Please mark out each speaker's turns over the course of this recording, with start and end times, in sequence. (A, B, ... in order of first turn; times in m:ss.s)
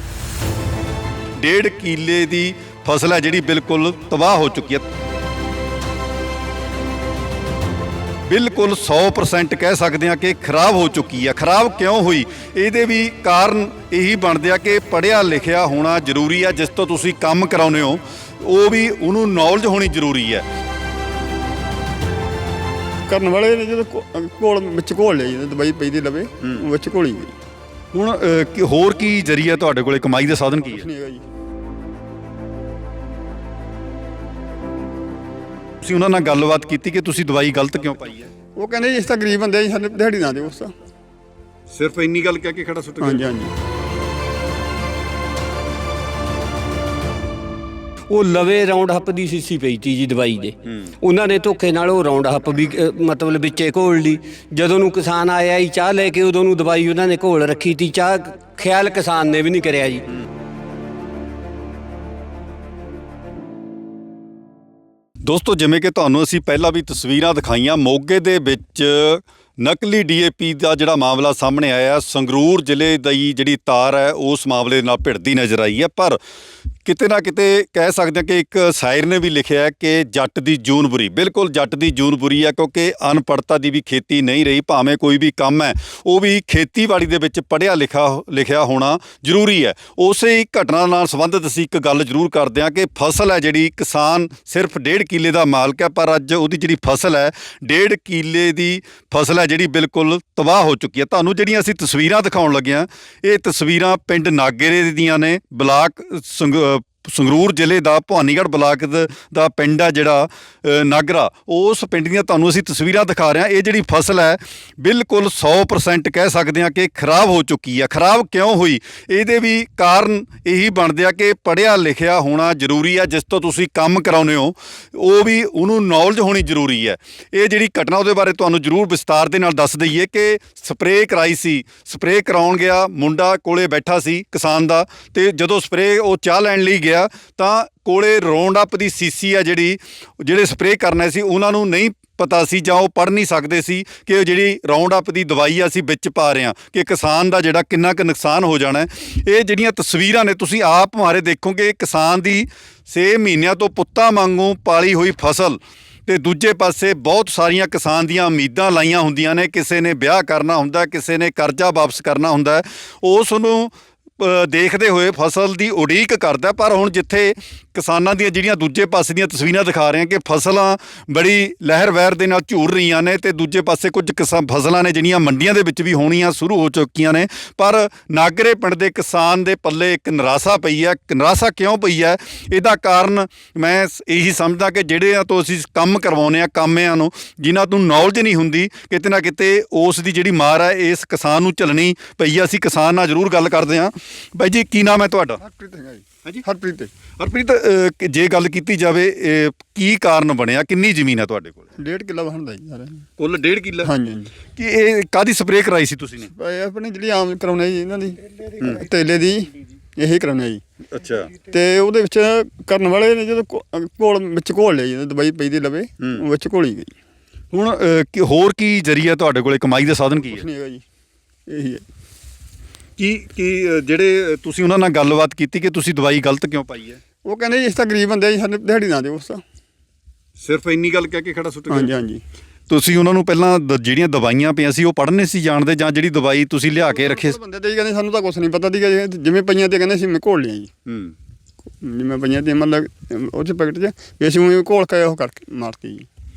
0:01.4-0:04.8 A
0:08.3-0:20.4 A
0:23.1-0:27.3 B
0:27.9-0:30.9 A
0:30.8-0:31.2 B
0:35.8-0:38.3 A
0:38.6-0:40.7 B
0:41.7-0:43.3 A
0:43.0-0:43.5 B
0:48.1-1:00.1 C
1:05.2-1:16.2 A
1:16.8-3:15.4 A
3:15.4-3:16.9 B
3:17.2-3:21.7 A
3:21.8-3:23.0 B
3:23.2-3:23.9 A
3:23.8-3:24.3 B
3:24.5-3:26.3 A
3:26.3-3:30.6 B
3:30.9-3:31.3 A
3:31.5-3:36.9 B
3:37.5-3:40.4 A
3:40.3-3:40.8 B
3:41.5-3:41.8 B
3:43.0-3:47.0 A
3:47.2-3:49.4 B
3:50.4-3:51.9 A
3:51.7-3:52.2 B
3:52.7-3:57.4 A
3:56.9-4:00.7 B
4:00.8-4:01.1 A
4:01.8-4:06.1 B